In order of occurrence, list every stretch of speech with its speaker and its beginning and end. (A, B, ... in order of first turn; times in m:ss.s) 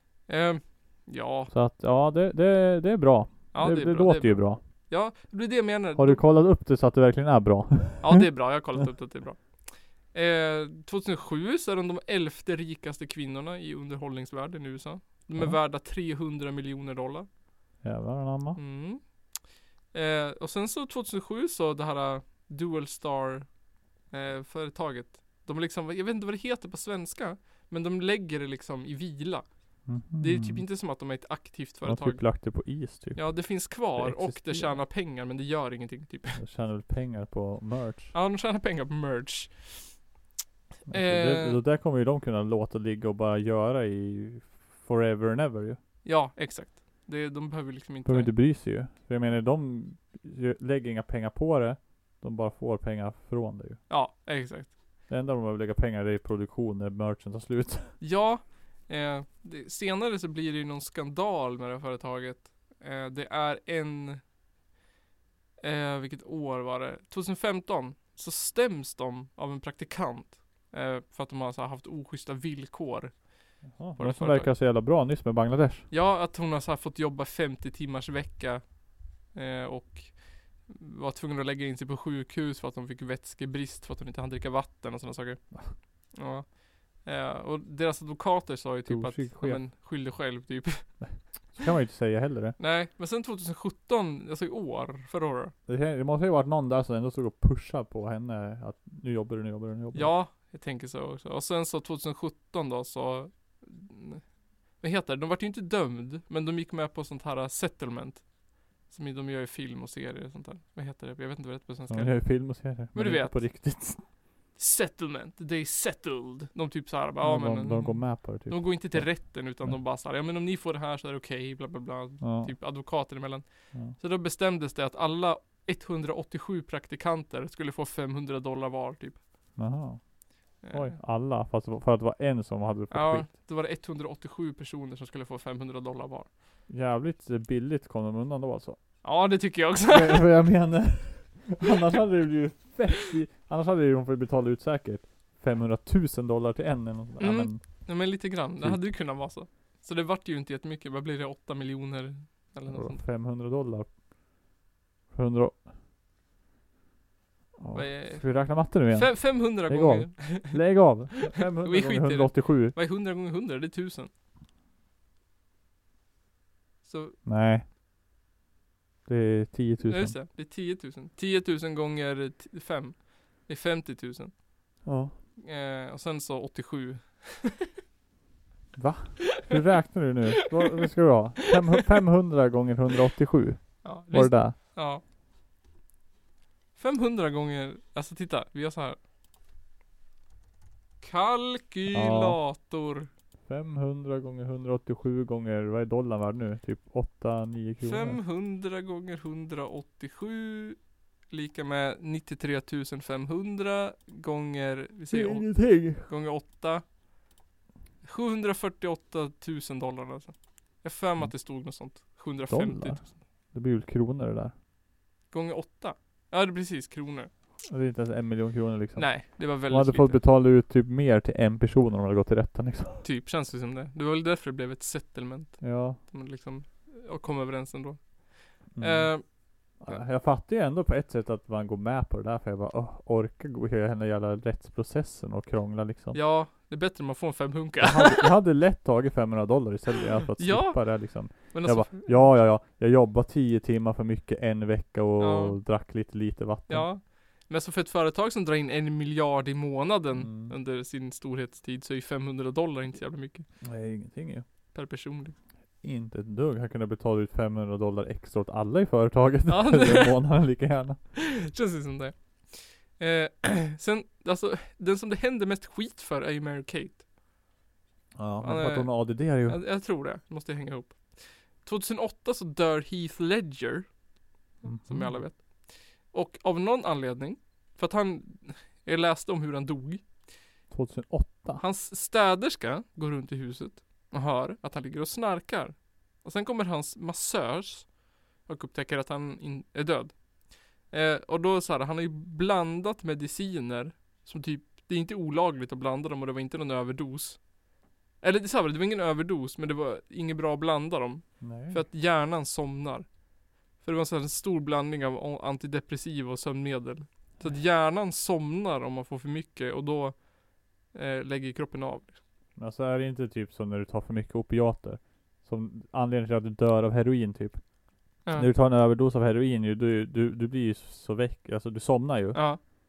0:00.3-0:01.5 A
0:01.5-0:04.6 B
0:03.5-0:06.2 A
0:06.0-0:08.2 B
0:08.0-0:17.3 A
0:17.8-0:18.6 B
0:18.6-0:23.6 A
0:24.1-0:36.4 A
0:29.8-0:30.6 B
0:31.8-0:34.8 B
0:36.4-0:38.1 B
0:38.1-0:40.0 A
0:40.9-0:41.6 A
0:40.9-0:45.8 B
0:46.0-0:48.3 A
0:48.0-0:53.8 B
0:53.9-0:54.7 A
0:55.1-0:58.0 B
0:58.0-1:04.2 A
1:05.6-1:14.5 A
1:13.6-1:15.9 B
1:15.9-1:31.3 A
1:28.8-1:29.6 B
1:31.0-1:32.6 B
1:32.6-1:35.5 A
1:35.7-1:40.1 B
1:39.9-1:53.4 A
1:51.9-1:54.0 B
1:54.5-2:09.2 A
1:57.2-1:59.8 B
2:02.2-2:02.5 B
2:09.6-2:13.3 B
2:10.6-2:11.0 A
2:12.9-2:16.3 A
2:16.7-2:18.8 B
2:19.0-2:20.3 A
2:19.9-2:27.9 B
2:27.2-2:33.0 A
2:32.7-2:33.9 B
2:35.1-2:35.6 B
2:37.6-2:42.7 B
2:37.7-2:40.8 A
2:41.3-2:44.1 A
2:46.8-2:47.2 A
2:47.2-2:47.6 B
2:49.0-2:50.2 B
2:49.9-2:54.4 A
2:54.8-2:55.1 B
2:55.4-2:57.7 A
2:58.7-3:04.6 B
3:03.8-3:05.0 A
3:06.8-3:09.0 A
3:11.0-3:13.1 A
3:11.9-3:12.4 B
3:13.4-3:18.2 B
3:17.8-3:26.9 A
3:25.1-3:26.1 B
3:28.0-3:33.1 A
3:32.5-3:34.5 B
3:35.3-3:37.3 A
3:37.7-3:43.0 B
3:39.0-3:40.2 A
3:43.0-3:50.0 A
3:45.6-3:46.0 B
3:48.7-3:56.2 B
3:56.1-3:58.3 A
3:57.8-4:06.9 B
4:00.4-4:02.3 A
4:05.2-4:05.6 A
4:06.7-4:13.5 A
4:10.2-4:10.5 B
4:13.6-4:14.4 B
4:14.7-4:15.4 A
4:15.8-4:21.0 B
4:19.5-4:20.2 A
4:21.2-4:27.0 A
4:28.2-4:29.6 B
4:28.4-4:33.9 A
4:34.6-4:40.2 A
4:34.6-4:35.2 B
4:40.7-4:41.6 B
4:41.6-4:57.5 A
4:58.2-5:03.1 A
5:01.4-5:01.8 B
5:03.7-5:10.3 A
5:10.8-5:12.2 A
5:12.6-5:17.6 B
5:18.3-5:22.4 B
5:22.3-5:22.6 A